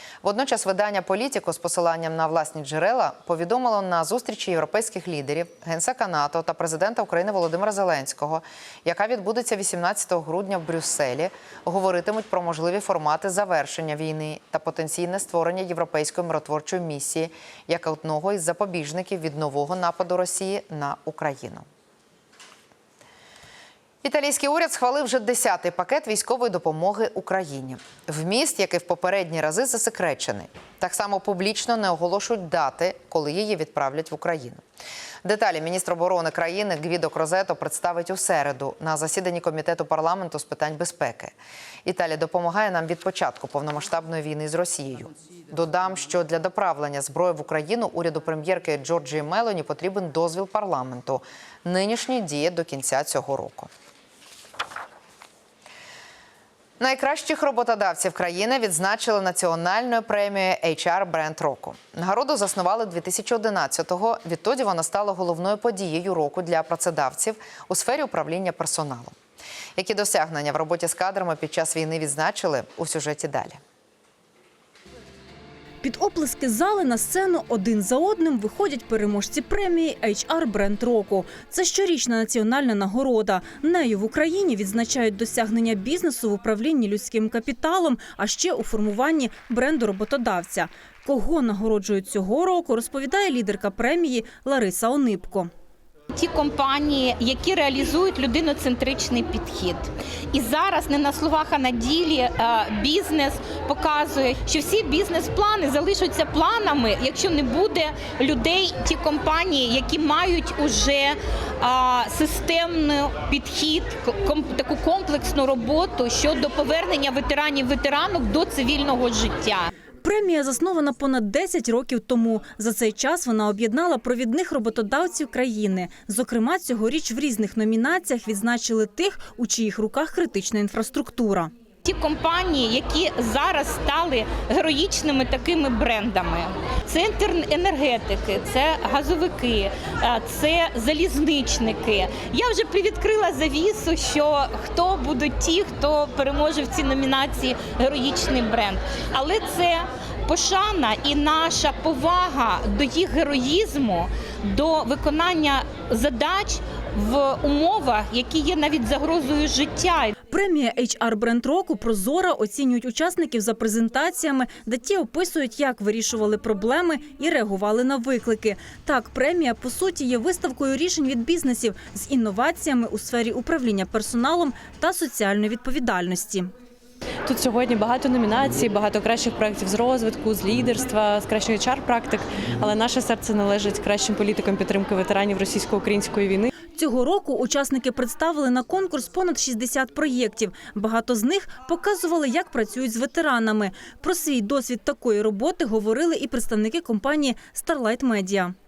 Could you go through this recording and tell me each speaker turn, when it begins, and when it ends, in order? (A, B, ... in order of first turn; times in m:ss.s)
0:00.2-0:21.6 A
0:24.0-0:34.6 A
0:35.2-0:53.7 A
0:56.8-1:09.1 A
1:09.8-1:13.6 A
1:15.8-1:35.5 B
1:36.1-1:59.7 C
2:00.0-2:11.5 B
2:11.8-2:40.1 C
2:40.3-2:56.5 B
2:57.2-3:06.5 D
3:06.7-3:18.5 B